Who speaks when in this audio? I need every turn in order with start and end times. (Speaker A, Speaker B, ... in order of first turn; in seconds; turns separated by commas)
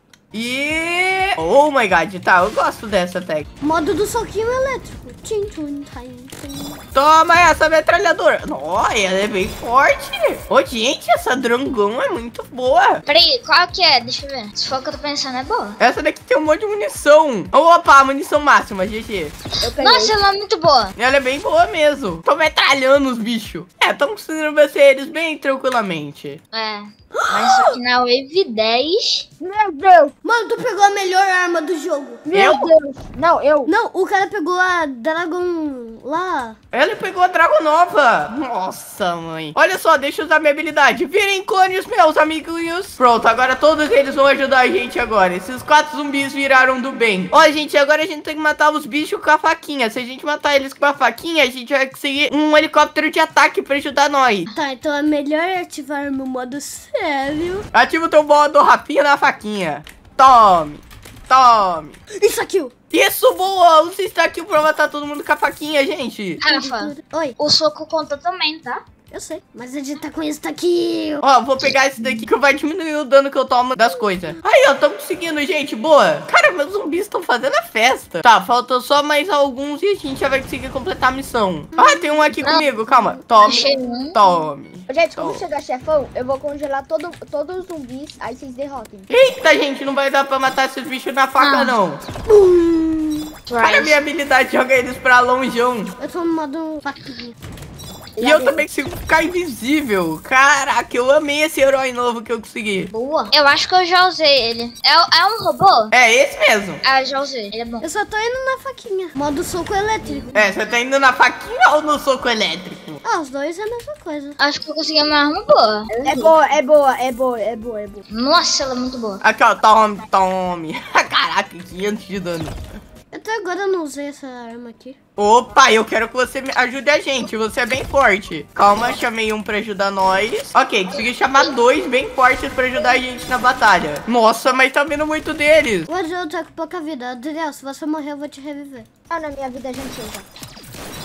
Speaker A: 0.3-3.5, Speaker B: 3.6-6.8, Speaker A: 6.9-13.0, Speaker C: 13.1-15.8, Speaker A: 15.8-19.3, Speaker D: 19.6-20.1, Speaker C: 19.6-20.9, Speaker A: 20.9-26.4, Speaker C: 26.5-29.2, Speaker B: 27.1-27.8, Speaker D: 29.4-30.1, Speaker B: 30.2-32.2, Speaker D: 32.2-33.7, Speaker A: 32.3-32.7, Speaker B: 33.6-36.6, Speaker A: 36.7-54.5, Speaker B: 54.5-57.6, Speaker A: 57.7-62.0, Speaker B: 62.1-62.7, Speaker A: 62.9-66.4, Speaker B: 66.4-67.3, Speaker C: 66.4-68.8, Speaker B: 69.1-71.2, Speaker A: 71.2-85.4, Speaker B: 81.8-82.3, Speaker C: 83.4-84.2, Speaker D: 84.9-89.1, Speaker A: 89.1-92.0, Speaker C: 91.4-91.7, Speaker B: 92.2-93.3, Speaker C: 93.5-94.0, Speaker A: 93.6-95.9, Speaker B: 96.0-97.3, Speaker D: 98.2-98.6, Speaker A: 98.2-102.9, Speaker C: 102.9-105.9, Speaker A: 105.9-106.8, Speaker C: 106.8-107.8, Speaker B: 107.8-110.3, Speaker A: 110.3-113.0, Speaker B: 113.0-114.4, Speaker C: 114.4-116.3, Speaker D: 116.0-118.0, Speaker C: 118.1-119.2, Speaker A: 119.2-122.6, Speaker B: 123.1-125.0, Speaker A: 125.2-135.9, Speaker B: 135.9-138.9, Speaker D: 139.1-140.2